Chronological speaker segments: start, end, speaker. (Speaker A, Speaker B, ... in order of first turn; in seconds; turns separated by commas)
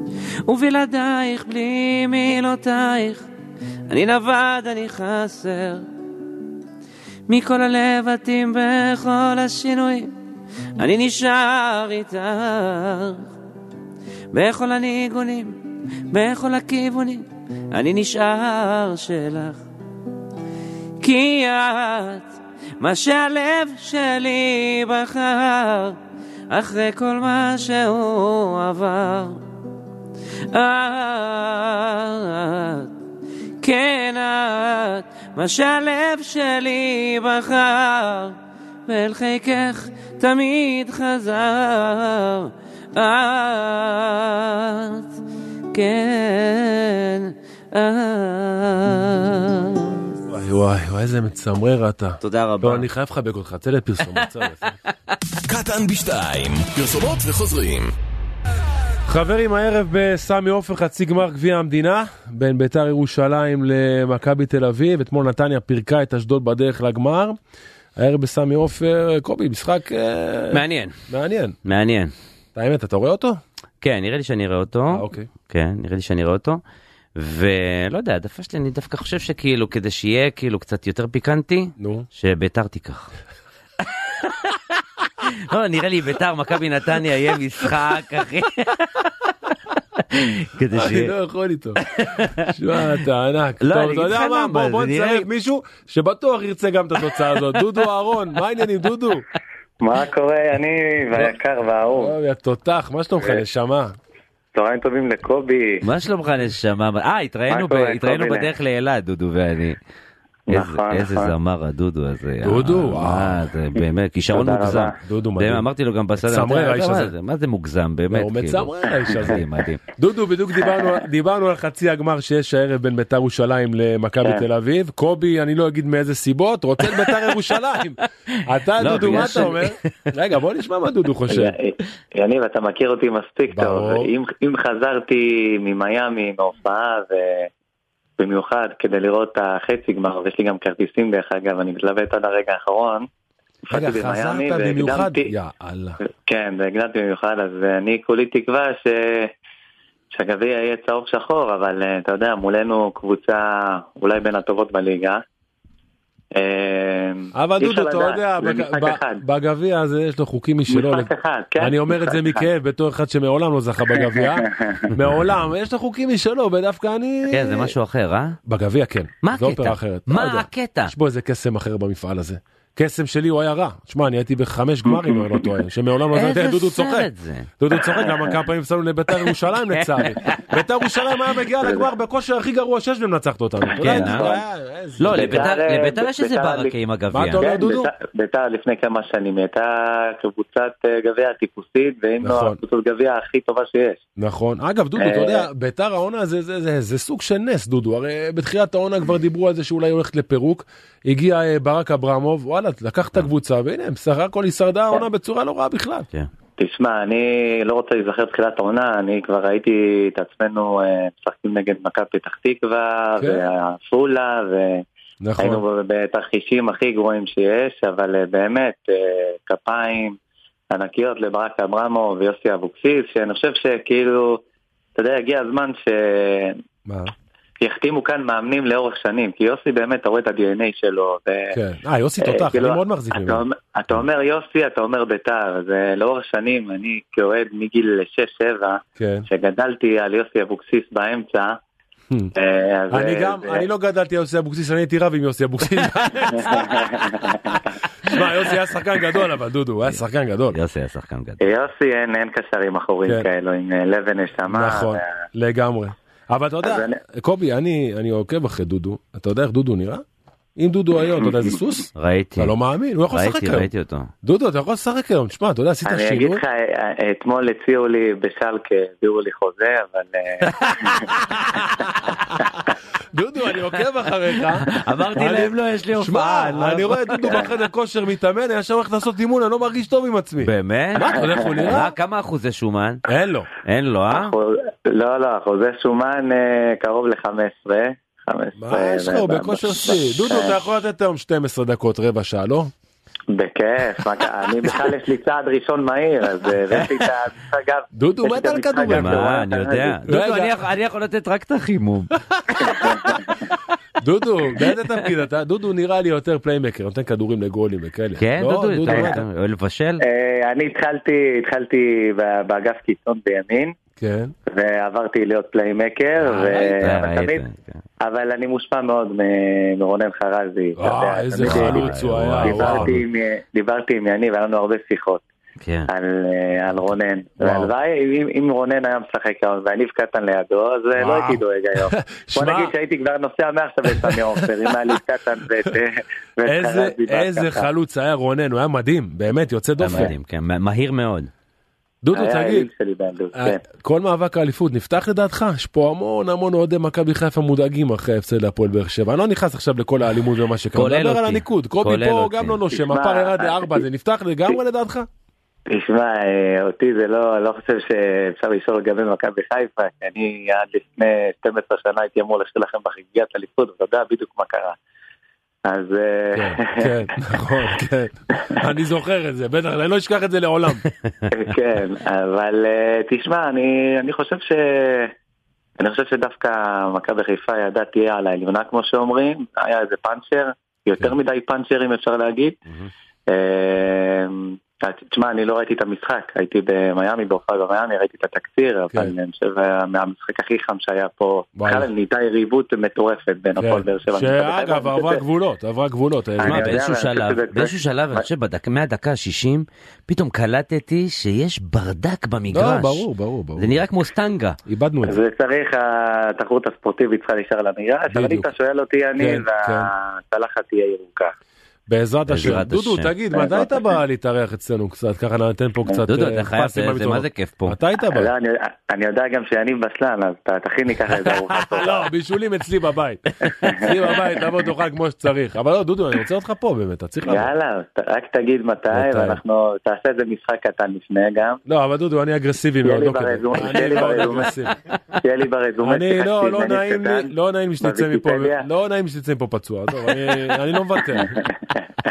Speaker A: 0.5-3.3, Speaker A: 3.9-5.8, Speaker A: 7.3-10.1, Speaker A: 10.8-13.3, Speaker A: 14.3-15.6, Speaker A: 16.1-19.6, Speaker A: 21.0-26.0, Speaker A: 26.5-29.4, Speaker A: 30.5-32.9, Speaker A: 33.6-45.1, Speaker A: 45.7-50.1, Speaker B: 50.3-54.7, Speaker A: 52.2-52.9, Speaker A: 54.1-54.4, Speaker C: 55.4-57.9, Speaker B: 59.1-67.4, Speaker B: 68.0-71.5, Speaker A: 70.5-71.0, Speaker A: 71.6-72.1, Speaker B: 72.5-73.4, Speaker A: 73.8-76.6, Speaker B: 74.9-75.3, Speaker A: 77.2-83.1, Speaker B: 81.8-82.1, Speaker A: 84.1-84.6, Speaker A: 85.2-89.1, Speaker A: 90.1-91.1, Speaker B: 90.7-91.8, Speaker A: 91.8-92.8, Speaker B: 92.5-99.3, Speaker A: 93.6-95.2, Speaker D: 99.8-102.1, Speaker B: 101.9-104.0, Speaker D: 104.5-105.8, Speaker A: 105.8-109.8, Speaker D: 107.5-108.5, Speaker D: 110.5-111.3, Speaker A: 110.5-119.8, Speaker B: 112.4-113.5, Speaker D: 114.2-114.9, Speaker B: 115.0-115.7, Speaker B: 116.2-117.1, Speaker B: 118.1-119.4, Speaker B: 120.0-131.6, Speaker D: 120.6-121.0, Speaker A: 127.0-127.3, Speaker A: 128.8-129.8, Speaker D: 131.3-137.5, Speaker B: 133.5-134.1, Speaker D: 138.2-143.1, Speaker D: 143.7-145.3, Speaker B: 143.7-146.0, Speaker D: 146.2-149.3, Speaker D: 150.1-155.2, Speaker D: 156.3-159.2, Speaker B: 157.3-161.1, Speaker D: 160.7-162.4, Speaker B: 161.6-167.7, Speaker D: 163.9-164.9, Speaker A: 167.3-168.3, Speaker B: 168.5-177.1, Speaker A: 169.2-170.9, Speaker D: 174.9-175.5, Speaker A: 176.1-177.5, Speaker B: 177.6-185.4, Speaker D: 177.9-178.3, Speaker A: 179.3-180.5, Speaker D: 183.7-184.4, Speaker A: 183.8-184.3, Speaker A: 185.0-187.4, Speaker D: 185.1-186.7, Speaker B: 187.1-187.9, Speaker D: 187.4-194.0, Speaker B: 192.2-192.6, Speaker B: 194.2-206.1, Speaker D: 195.0-195.4, Speaker D: 206.6-214.8, Speaker B: 215.2-215.6, Speaker D: 215.4-220.2, Speaker D: 220.7-224.4, Speaker D: 224.9-226.6, Speaker B: 226.8-227.1, Speaker D: 227.6-231.5, Speaker B: 231.5-233.4, Speaker D: 232.2-241.6, Speaker B: 239.0-239.2, Speaker D: 242.3-243.7, Speaker B: 242.9-250.6, Speaker D: 246.3-247.6, Speaker A: 250.5-251.4, Speaker D: 251.4-255.1, Speaker B: 254.5-260.0, Speaker D: 256.6-257.0, Speaker B: 260.6-263.7, Speaker D: 261.2-261.6, Speaker A: 261.9-262.5, Speaker A: 263.1-264.1, Speaker B: 264.2-266.4, Speaker D: 265.8-271.1, Speaker B: 270.5-272.4, Speaker B: 273.1-274.6, Speaker A: 274.6-277.4, Speaker B: 275.1-281.9, Speaker A: 280.4-283.0, Speaker D: 281.1-281.5, Speaker B: 283.1-283.5, Speaker A: 283.6-284.3, Speaker D: 284.1-290.6, Speaker B: 288.6-292.7, Speaker D: 293.3-300.0, Speaker B: 297.9-299.2, Speaker A: 298.8-302.9, Speaker B: 300.1-300.5, Speaker B: 302.5-303.3, Speaker D: 302.6-303.4, Speaker B: 304.0-309.2, Speaker A: 308.2-310.0, Speaker D: 308.9-309.2, Speaker D: 310.0-313.8, Speaker B: 314.0-314.3, Speaker D: 314.5-317.4, Speaker B: 316.3-316.8, Speaker A: 316.8-317.8, Speaker D: 318.0-325.2, Speaker B: 320.8-323.0, Speaker A: 321.4-323.0, Speaker A: 325.6-325.9, Speaker D: 325.9-337.7, Speaker B: 327.4-327.7, Speaker B: 331.0-332.7, Speaker B: 333.9-335.0, Speaker B: 336.5-340.1, Speaker A: 339.8-341.3, Speaker B: 342.0-342.7, Speaker D: 342.1-343.6, Speaker B: 343.3-355.1, Speaker A: 350.7-352.5, Speaker D: 352.7-353.8, Speaker D: 355.7-364.8, Speaker D: 365.7-366.9, Speaker B: 366.4-370.8, Speaker D: 371.3-375.1, Speaker D: 375.8-382.6, Speaker D: 383.3-395.2, Speaker B: 391.6-391.9, Speaker B: 393.6-396.8, Speaker D: 396.4-398.2, Speaker A: 396.4-403.0, Speaker B: 402.5-403.8, Speaker A: 403.6-404.6, Speaker B: 404.7-405.2, Speaker D: 405.0-411.3, Speaker B: 408.1-408.5, Speaker B: 409.2-409.9, Speaker B: 411.9-418.3, Speaker A: 412.3-413.1, Speaker D: 413.3-413.8, Speaker A: 416.1-417.7, Speaker D: 418.1-422.1, Speaker B: 421.4-427.5, Speaker D: 423.7-423.9, Speaker D: 427.2-431.6, Speaker B: 428.9-429.4, Speaker B: 431.6-434.7, Speaker D: 432.8-434.5, Speaker D: 435.2-438.6, Speaker B: 435.8-441.4, Speaker D: 441.2-441.9